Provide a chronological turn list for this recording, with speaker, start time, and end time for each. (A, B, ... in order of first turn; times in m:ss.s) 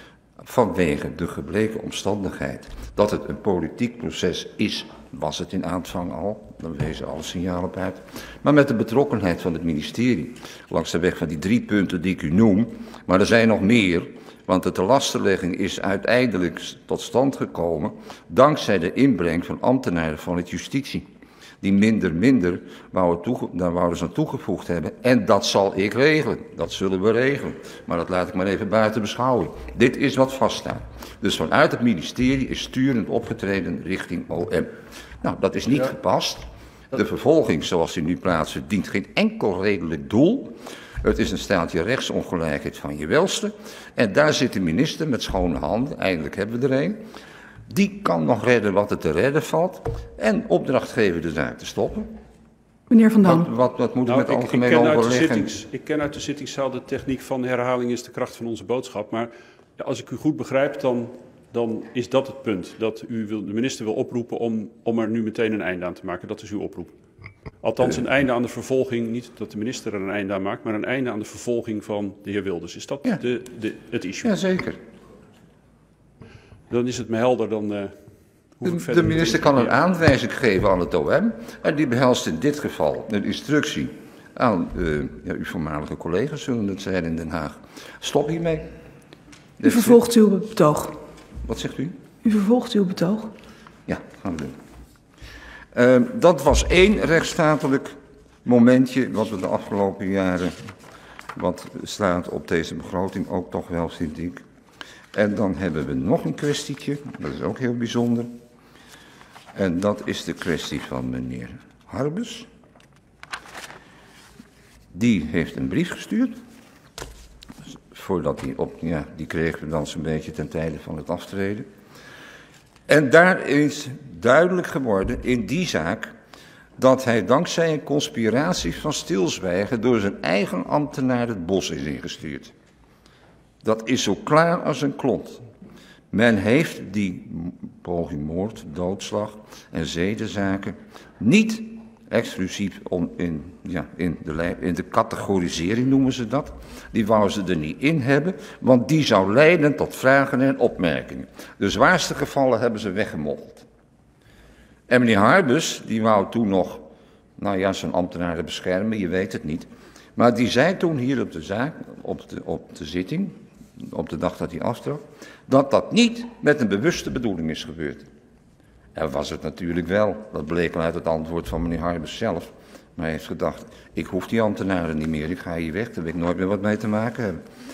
0:00.4-0:21.0 A
0:21.6-0:47.0 A
0:47.7-0:52.1 A
0:52.9-0:53.5 B
0:53.2-0:55.5 A
0:54.0-1:07.0 C
1:07.6-1:14.3 C
1:14.2-1:14.8 A
1:16.7-1:18.0 C
1:18.5-1:19.8 C
1:18.6-1:28.7 A
1:29.6-1:30.0 A
1:29.6-1:31.0 B
1:31.4-1:31.9 A
1:32.2-1:33.3 B
1:33.9-1:34.6 A
1:35.7-1:40.6 A
1:41.4-1:44.4 A
1:45.1-1:48.3 A
1:49.5-1:52.5 A
1:54.9-1:56.4 A
1:57.9-2:01.7 A
2:02.9-2:06.1 A
2:06.8-2:12.5 A
2:13.6-2:15.4 A
2:16.1-2:33.6 A
2:34.9-2:36.8 A
2:37.4-2:48.1 A
2:48.9-2:57.4 A